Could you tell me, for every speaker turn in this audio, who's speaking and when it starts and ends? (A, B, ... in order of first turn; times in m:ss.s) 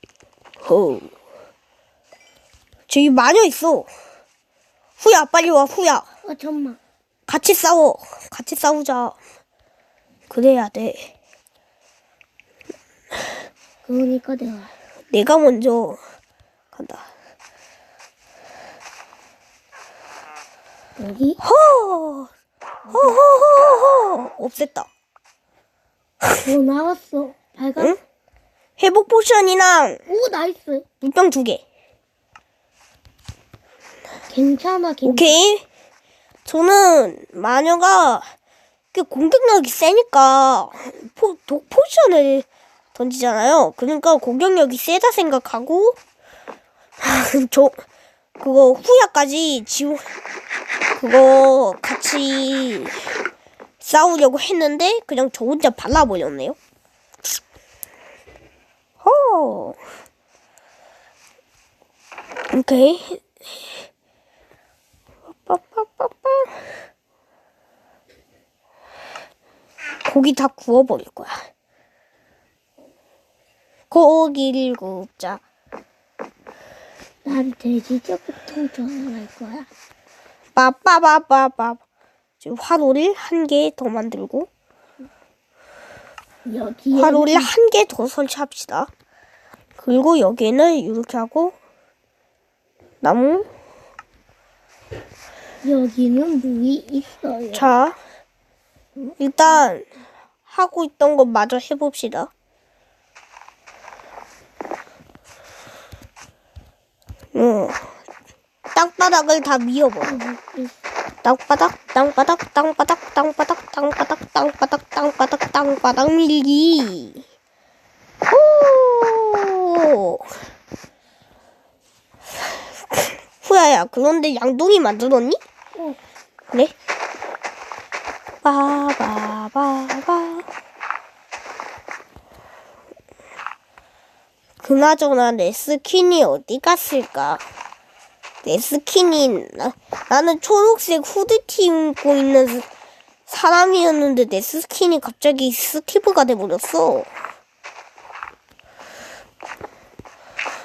0:00.6-0:01.1 A
0:02.9-0:03.9 A
0:05.0-0:06.0 A
0:06.2-0:06.8 B
0:07.3-0:09.2 A
0:10.3-0:11.1 A
0:13.8-0:14.7 B
0:15.1-0:16.0 A
0:16.7-0:17.0 A
0:21.0-0:21.4 B
0:21.4-0:22.3 A
0:22.9-0:23.2 B
0:22.9-0:24.9 A
0:26.4-0:28.0 B
0:28.8-0:30.0 A
0:30.1-0:30.8 B
0:31.0-0:31.6 A
0:34.3-0:35.4 B
0:35.0-0:35.6 A
0:36.4-0:38.2 A
0:38.9-0:46.0 A
0:47.0-0:47.8 A
0:48.4-0:50.0 A
0:51.0-0:53.1 A
0:53.8-0:56.6 A
0:59.0-0:59.8 A
1:02.5-1:03.2 A
1:05.3-1:06.6 A
1:10.0-1:11.5 A
1:13.9-1:15.4 A
1:17.2-1:19.7 B
1:20.6-1:21.8 A
1:22.4-1:24.5 A
1:26.4-1:27.5 B
1:26.9-1:28.9 A
1:29.8-1:31.6 A
1:33.0-1:33.5 A
1:35.6-1:37.7 B
1:37.5-1:38.0 A
1:39.2-1:39.8 A
1:40.5-1:42.3 A
1:47.3-1:47.9 A
1:48.7-1:50.2 A
1:50.0-1:50.7 B
1:51.2-1:57.2 A
1:58.3-2:00.3 A
2:02.9-2:05.4 A
2:08.4-2:10.4 A
2:14.6-2:17.4 A
2:18.4-2:22.6 A
2:23.3-2:27.1 A